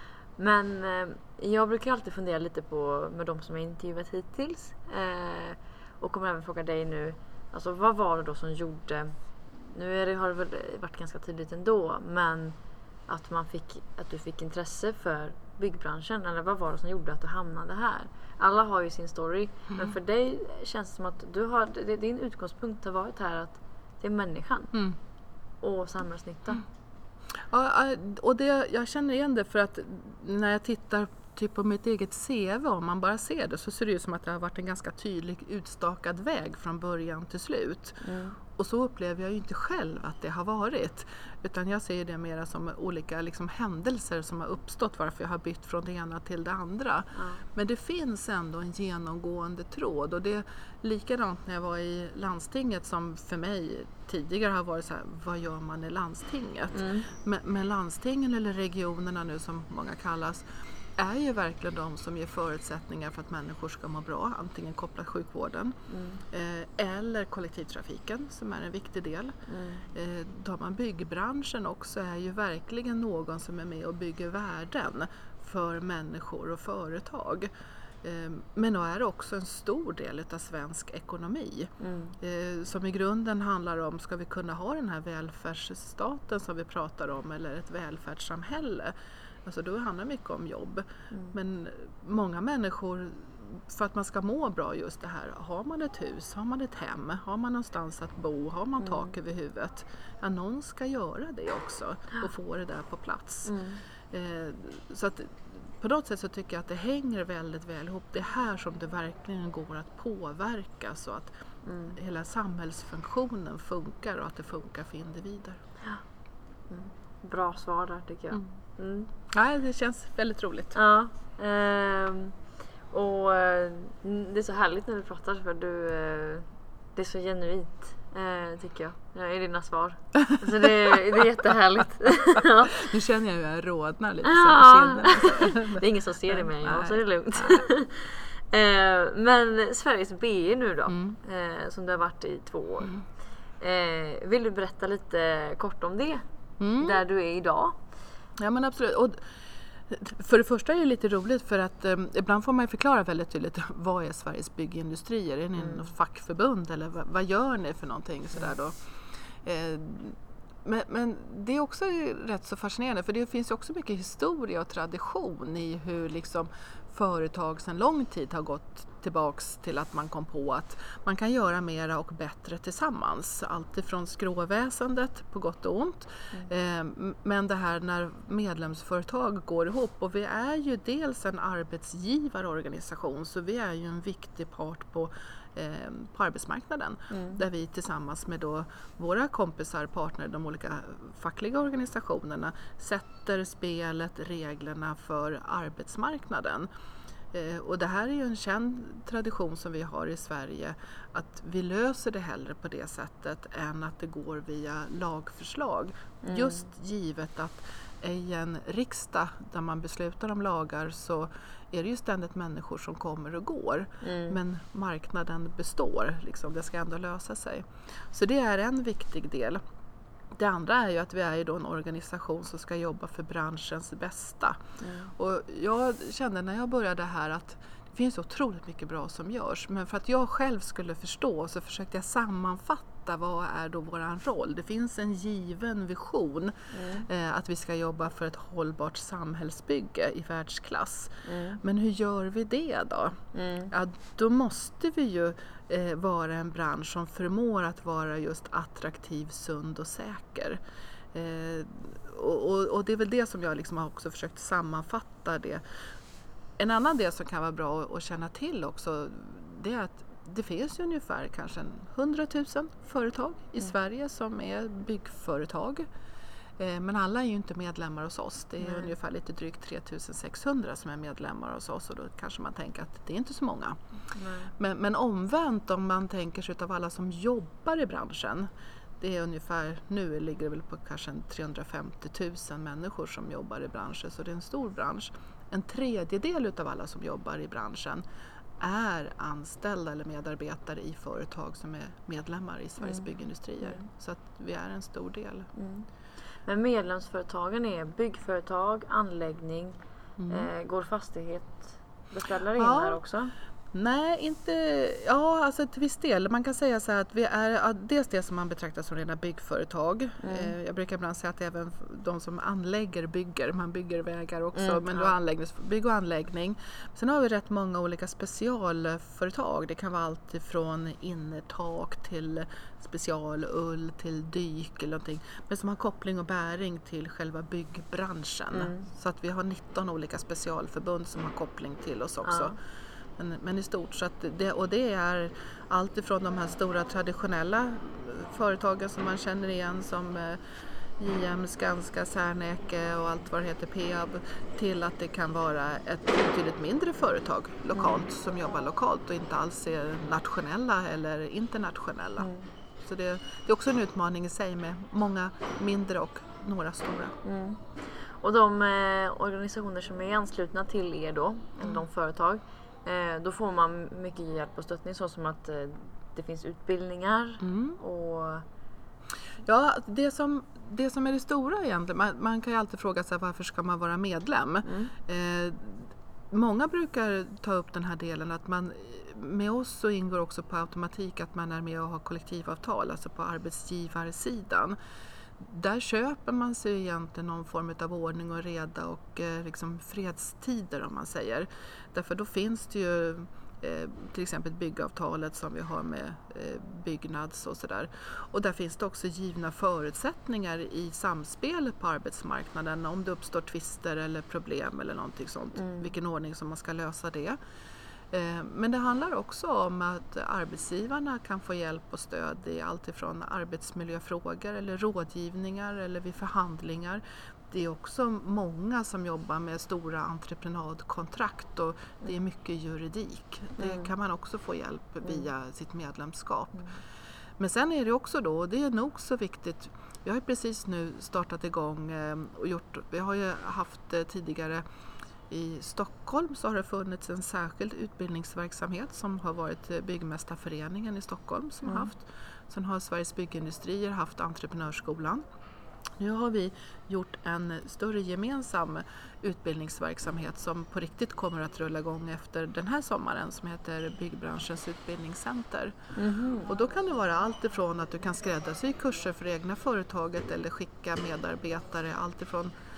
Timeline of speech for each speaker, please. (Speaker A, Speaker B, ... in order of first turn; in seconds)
Speaker A: 0.4-12.6, 13.1-24.7, 25.6-26.6, 38.0-38.4, 47.1-47.4, 56.7-57.1, 65.9-66.2, 69.5-69.8, 81.8-82.2, 91.1-91.4, 98.8-99.1, 103.4-103.8, 111.6-112.0, 116.7-119.1, 120.7-122.3, 122.9-132.9, 134.2-142.9, 143.6-146.2, 146.8-147.8, 155.6-155.9, 187.1-187.4, 206.2-206.7, 214.0-214.4, 224.8-225.1, 236.7-237.1, 241.2-241.6, 243.3-243.7, 268.6-268.9, 274.1-274.5, 292.8-293.1, 293.6-293.9, 295.5-295.9, 296.4-299.8, 300.3-303.3, 310.2-310.5, 314.5-315.1, 328.5-328.9, 332.2-332.6, 347.7-348.0, 352.2-352.5, 357.2-357.6, 358.2-368.4, 374.6-374.9, 405.6-405.9, 423.6-423.9, 441.6-441.9, 455.9-456.5
Speaker B: 27.4-38.0, 38.5-65.8, 66.3-69.3, 69.9-77.5, 78.0-88.9, 89.5-103.5, 104.1-111.3, 111.9-115.6, 119.3-120.8, 130.2-130.6, 132.4-137.7, 140.9-141.2, 146.6-147.0, 148.4-149.2, 149.9-196.7, 197.3-219.6, 220.3-224.6, 225.2-243.2, 243.7-250.6, 251.1-255.6, 256.6-265.9, 266.6-273.8, 274.6-278.5, 279.0-288.0, 288.6-295.5, 300.2-300.5, 302.6-303.0, 303.7-332.6, 333.2-340.4, 341.0-352.3, 352.8-357.1, 367.4-367.8, 369.4-384.8, 385.4-407.4, 408.1-426.7, 427.4-434.6, 435.3-445.2, 446.0-455.8, 456.4-462.5